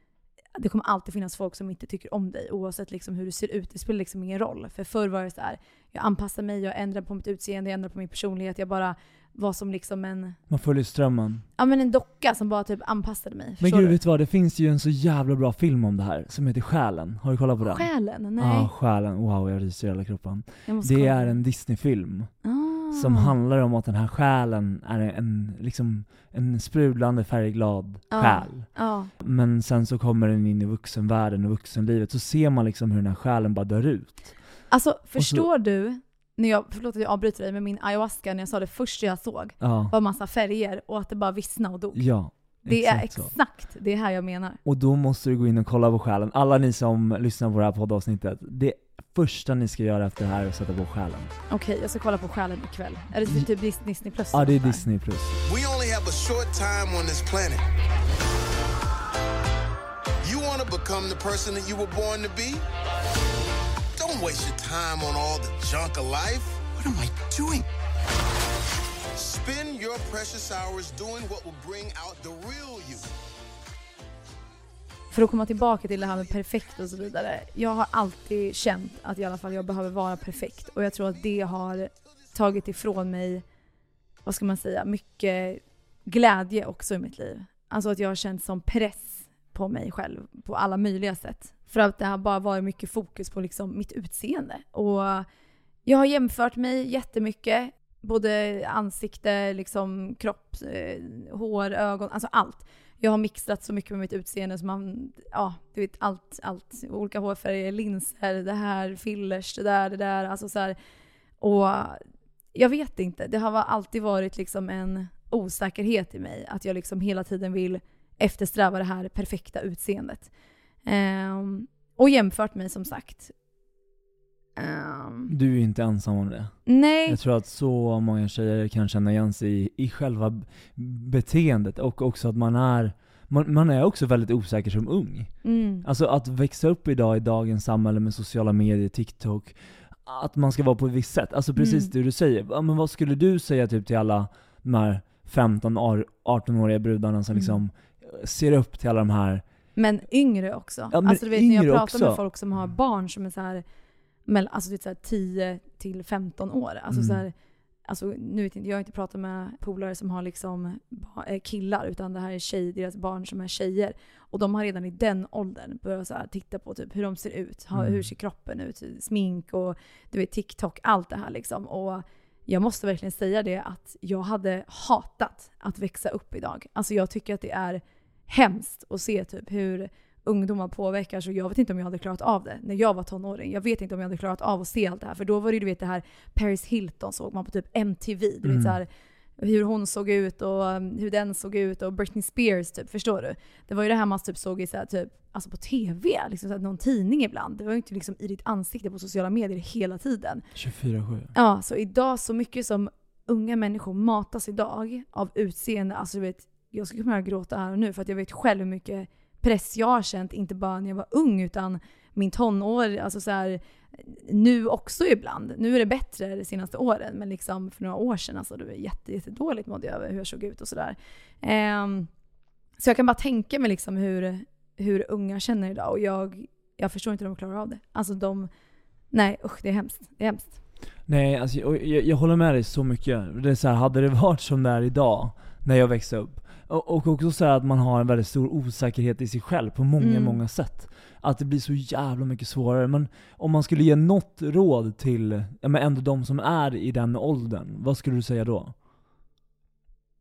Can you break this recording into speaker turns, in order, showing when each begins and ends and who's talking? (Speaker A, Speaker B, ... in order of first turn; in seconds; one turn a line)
Speaker A: 0.6-10.4
Speaker B: 10.5-11.4
Speaker A: 11.6-13.9
Speaker B: 13.6-22.3
Speaker A: 17.6-18.7
Speaker A: 20.7-21.4
Speaker A: 22.4-23.3
Speaker B: 22.9-34.4
Speaker A: 28.1-29.1
Speaker A: 34.7-42.1
Speaker B: 35.2-35.5
Speaker B: 39.6-39.9
Speaker B: 41.9-43.3
Speaker A: 42.6-44.6
Speaker B: 44.6-51.3
Speaker A: 51.5-54.8
Speaker B: 54.3-55.4
Speaker C: 55.5-57.6
Speaker C: 60.2-62.6
Speaker C: 64.0-67.7
Speaker C: 69.2-73.1
Speaker A: 75.1-83.4
Speaker A: 84.2-95.3
Speaker A: 95.8-110.8
Speaker A: 111.4-112.0
Speaker A: 112.5-120.3
Speaker A: 120.8-123.3
Speaker A: 124.6-125.3
Speaker B: 125.3-149.4
Speaker A: 126.7-127.2
Speaker A: 135.4-135.8
Speaker A: 141.6-141.9
Speaker A: 147.3-147.6
Speaker A: 149.8-153.6
Speaker B: 150.9-152.2
Speaker A: 154.3-157.3
Speaker B: 156.9-157.2
Speaker A: 157.9-200.4
Speaker B: 167.7-168.1
Speaker B: 188.4-188.8
Speaker B: 200.5-201.3
Speaker A: 201.3-222.1
Speaker A: 222.8-228.5
Speaker A: 229.1-230.6
Speaker B: 231.1-248.7
Speaker A: 240.0-240.4